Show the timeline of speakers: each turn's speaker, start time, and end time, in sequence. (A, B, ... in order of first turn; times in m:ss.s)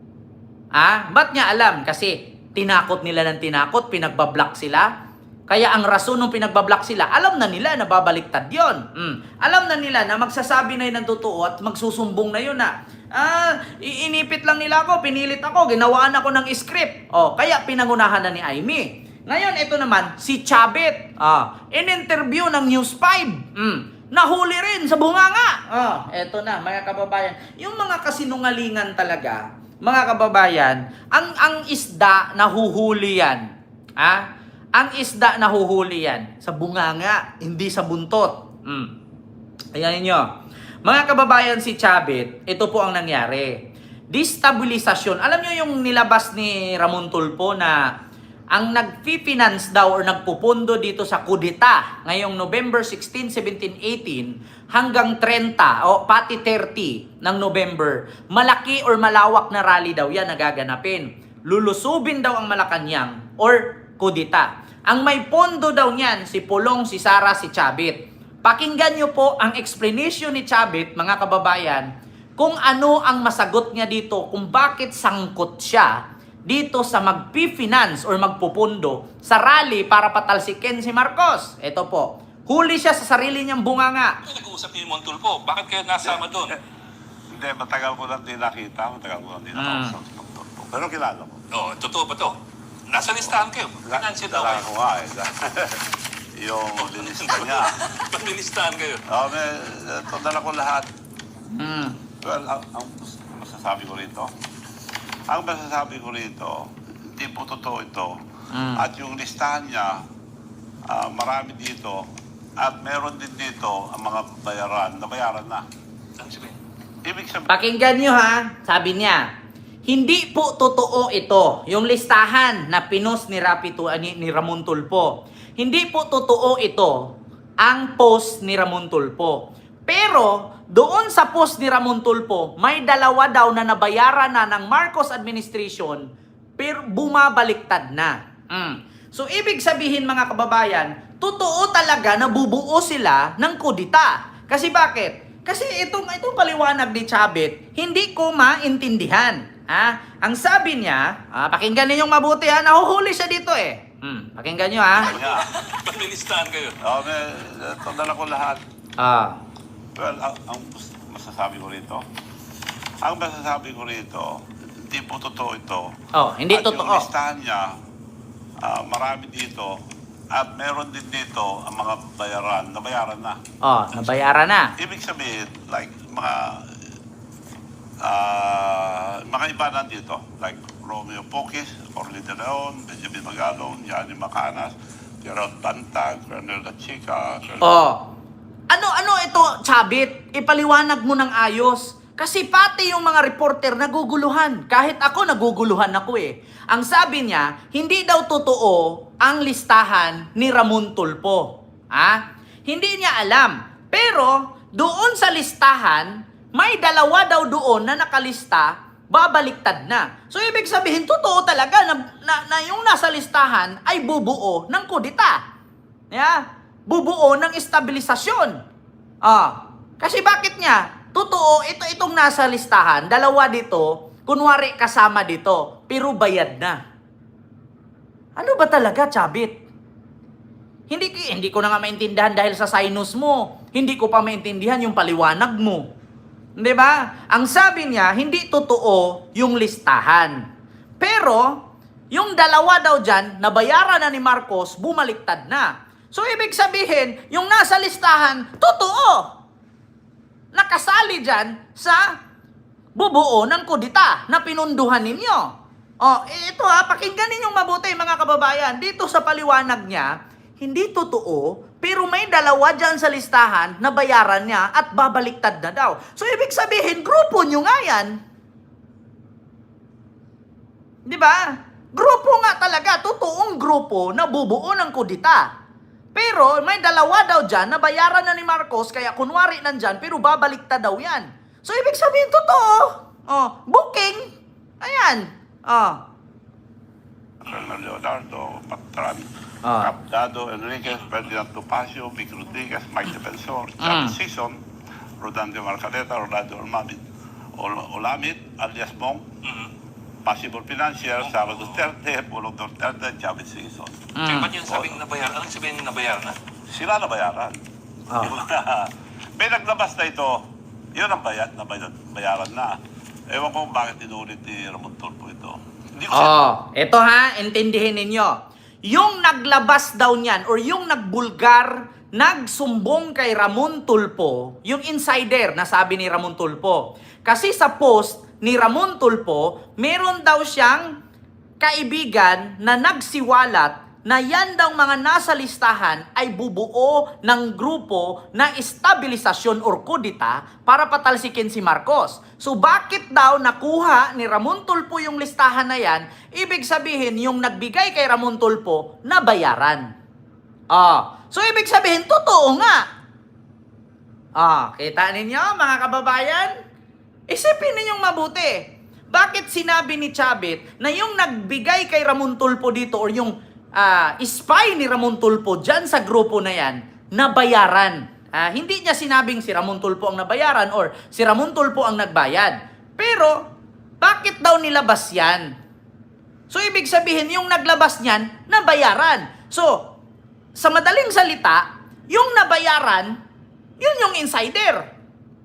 0:00.7-0:04.9 A
0:05.5-0:38.9 A
0:39.7-0:40.3 A
0:40.8-0:43.6 A
0:44.1-0:47.8 A
0:48.5-1:24.2 A
1:24.3-1:26.6 B
1:27.3-1:31.4 C
1:29.6-1:30.0 A
1:31.5-1:34.7 B
1:33.8-1:37.8 C
1:36.8-1:39.0 B
1:39.1-1:40.9 C
1:41.5-1:42.0 A
1:42.2-1:44.3 C
1:45.3-1:48.2 C
1:48.5-1:48.8 A
1:48.7-1:50.0 C
1:50.9-1:55.6 C
1:56.2-1:56.6 B
1:57.0-1:57.5 C
1:57.5-1:59.3 A
1:59.9-2:16.0 A
2:16.6-2:35.2 A
2:35.0-2:35.5 C
2:35.1-2:36.8 B
2:36.8-2:38.6 C
2:39.0-2:39.4 A
2:40.0-2:42.0 C
2:43.0-2:45.9 C
2:46.1-2:47.1 A
2:46.5-2:47.7 C
2:48.6-2:49.8 C
2:50.3-2:53.4 C
2:53.6-2:54.8 A
2:54.8-2:56.7 C
2:58.0-3:07.7 C
3:07.6-3:08.1 A
3:08.7-3:35.4 A
3:36.1-3:38.6 A
3:39.2-3:46.8 A
3:48.4-3:49.6 A
3:50.9-3:55.9 A
3:56.6-4:00.5 A
4:01.0-4:01.6 A
4:02.1-4:09.3 A
4:10.5-4:12.1 A
4:13.0-4:15.5 A
4:16.0-4:28.2 A
4:31.1-4:35.5 A
4:36.2-4:44.3 A
4:44.8-4:46.0 A
4:47.4-4:49.3 C
4:49.6-4:49.9 A
4:49.8-4:54.6 C
4:53.8-4:54.2 A
4:55.2-4:57.0 C
4:57.6-4:59.2 C
4:59.4-4:59.7 B
5:00.3-5:04.0 C
5:04.2-5:04.5 A
5:04.3-5:06.4 B
5:04.6-5:05.0 C
5:06.7-5:07.6 C
5:08.1-5:08.4 A
5:08.2-5:12.8 C
5:13.3-5:16.4 C
5:16.1-5:30.9 A
5:31.6-5:49.9 A
5:50.7-5:52.8 A
5:54.4-5:56.5 A
5:57.3-6:13.4 A
6:14.0-6:15.5 A
6:16.5-6:19.9 A
6:20.6-6:23.2 A
6:23.8-6:24.8 A